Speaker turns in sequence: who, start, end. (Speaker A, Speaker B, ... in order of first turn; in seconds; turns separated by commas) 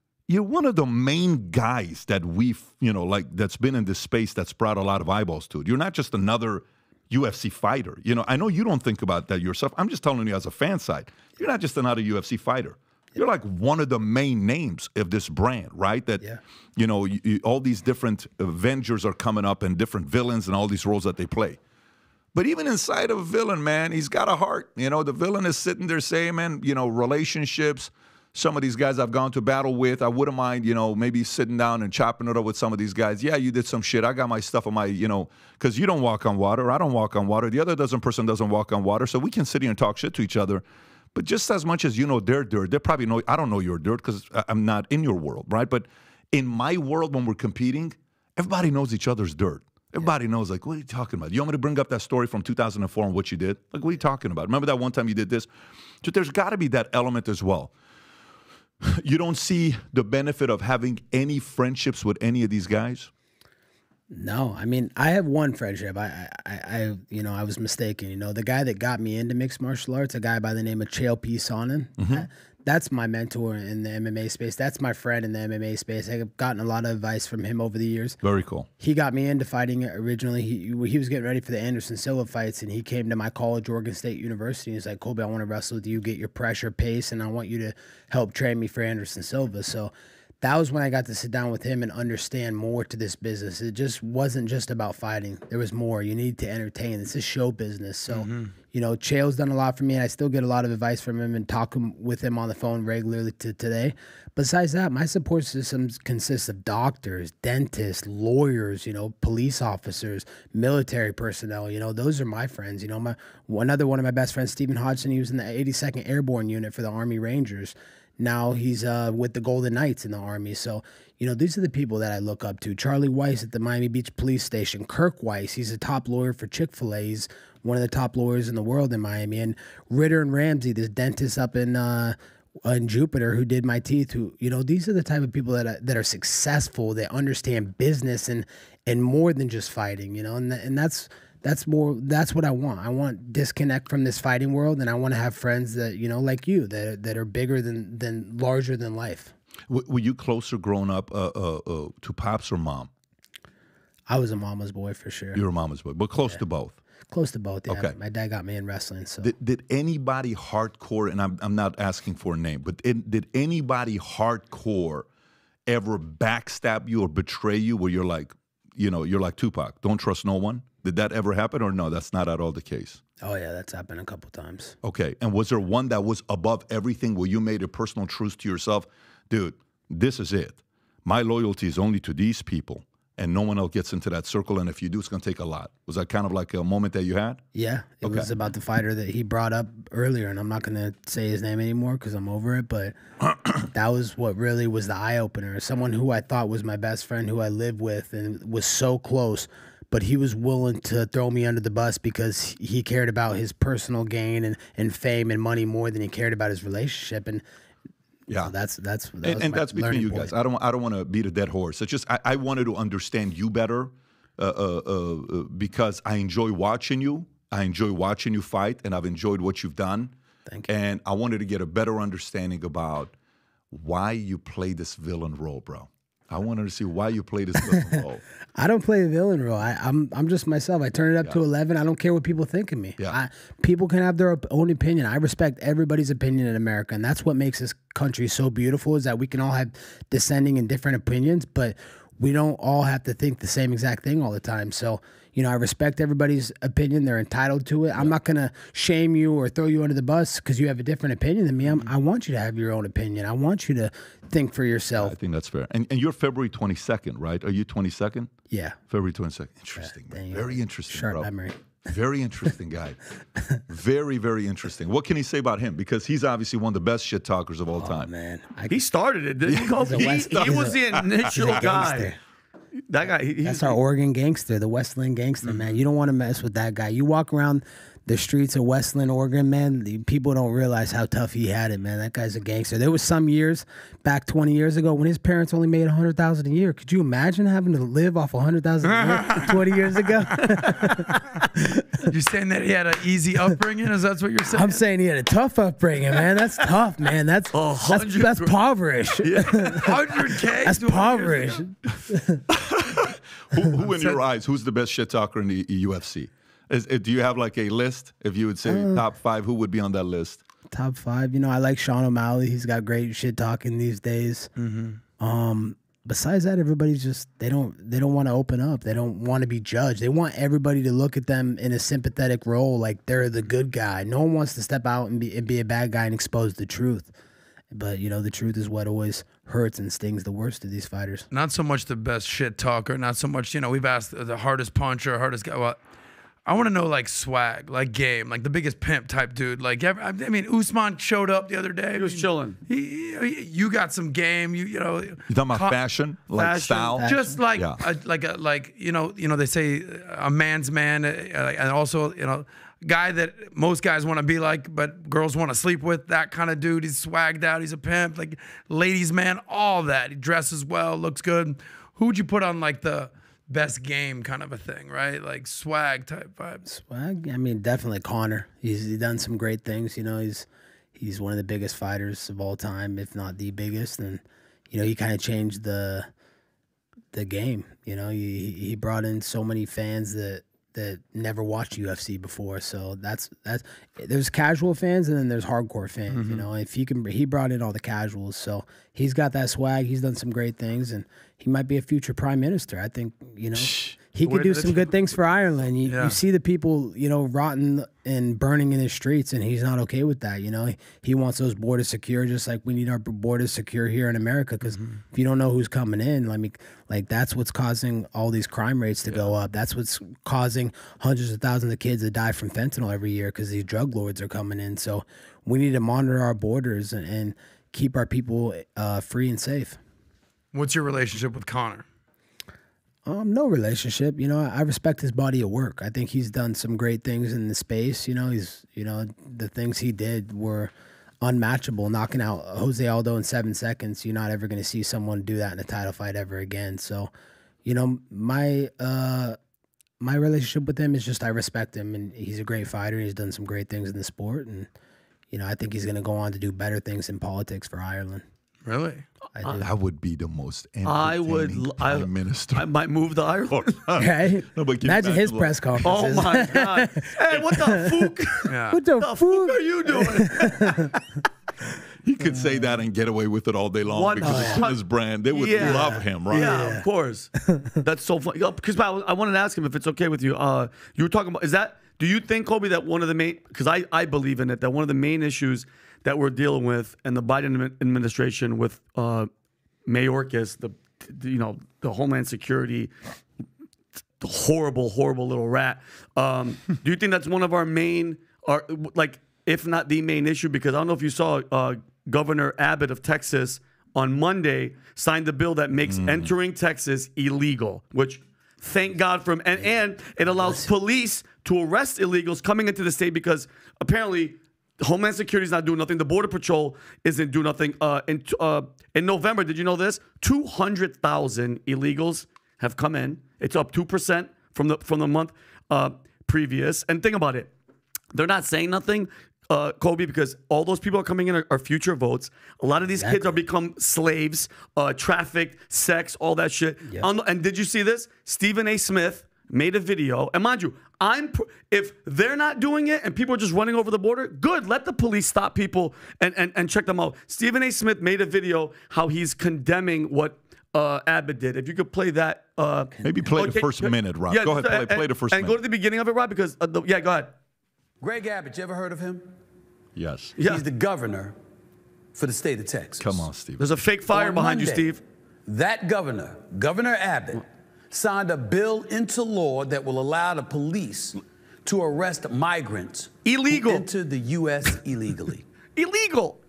Speaker A: 0.3-16.2, Speaker A: 16.8-21.6, Speaker A: 22.3-40.6, Speaker A: 41.1-55.5, Speaker A: 56.0-57.7, Speaker A: 58.8-63.1, Speaker B: 64.1-78.2, Speaker A: 72.0-72.3, Speaker A: 78.2-78.7, Speaker B: 78.8-149.3, Speaker C: 98.1-98.5, Speaker A: 149.7-152.9, Speaker B: 154.1-155.4, Speaker A: 155.3-156.8, Speaker B: 157.1-159.3, Speaker A: 157.7-158.0, Speaker A: 159.2-165.1, Speaker A: 165.7-173.0, Speaker B: 173.2-174.7, Speaker A: 174.8-187.4, Speaker B: 187.5-192.9, Speaker A: 188.0-188.3, Speaker B: 193.6-207.4, Speaker B: 208.4-210.3, Speaker A: 209.2-220.1, Speaker A: 220.7-223.1, Speaker A: 223.7-228.2, Speaker B: 227.7-228.0, Speaker B: 228.6-255.1, Speaker A: 254.9-258.3, Speaker B: 258.5-258.8, Speaker A: 258.9-261.3, Speaker B: 259.8-261.6, Speaker A: 261.9-263.0, Speaker A: 263.7-268.1, Speaker B: 267.8-268.8, Speaker D: 268.7-272.1, Speaker A: 269.5-271.8, Speaker B: 269.8-272.2, Speaker D: 272.9-273.8, Speaker B: 273.4-292.0, Speaker C: 288.8-289.6, Speaker C: 290.3-291.0, Speaker C: 292.1-294.8, Speaker B: 294.5-299.9, Speaker D: 297.5-298.6, Speaker D: 299.2-299.9, Speaker C: 299.8-301.6, Speaker B: 300.4-302.4, Speaker A: 302.5-310.4, Speaker C: 303.9-304.2, Speaker B: 308.6-309.0, Speaker B: 310.7-314.5, Speaker C: 314.6-315.0, Speaker B: 315.2-327.1, Speaker B: 327.7-331.2, Speaker C: 331.3-335.8, Speaker C: 336.4-345.8, Speaker D: 341.9-342.6, Speaker A: 345.3-347.8, Speaker D: 346.3-347.0, Speaker C: 347.0-366.6, Speaker B: 347.0-347.4, Speaker B: 366.6-376.1, Speaker B: 377.1-419.8, Speaker C: 386.1-386.5, Speaker A: 393.5-394.0, Speaker C: 394.3-394.6, Speaker C: 395.8-396.2, Speaker C: 404.6-405.0, Speaker C: 409.1-409.3, Speaker C: 420.5-421.8, Speaker B: 423.1-437.1, Speaker B: 437.6-439.4, Speaker B: 440.0-444.7, Speaker B: 445.3-448.2, Speaker C: 448.6-449.0, Speaker B: 449.3-449.7, Speaker A: 449.6-452.7, Speaker D: 450.8-453.7, Speaker A: 453.5-456.1, Speaker B: 453.9-458.1, Speaker D: 455.8-460.9, Speaker C: 458.5-458.8, Speaker B: 458.7-460.9, Speaker A: 462.0-466.6, Speaker D: 463.9-464.8, Speaker B: 464.2-464.6, Speaker D: 465.3-479.3, Speaker B: 465.6-466.8, Speaker D: 479.9-482.9, Speaker D: 484.2-517.5, Speaker A: 495.9-496.3, Speaker D: 518.1-547.3, Speaker B: 522.9-523.4, Speaker A: 543.0-545.6, Speaker E: 548.0-549.3, Speaker A: 550.0-550.4, Speaker D: 550.4-550.6, Speaker E: 550.4-551.4, Speaker E: 552.1-553.3, Speaker A: 553.0-553.6, Speaker D: 553.6-555.0, Speaker E: 554.1-554.9, Speaker E: 555.5-565.4, Speaker D: 563.2-563.9, Speaker D: 565.8-566.4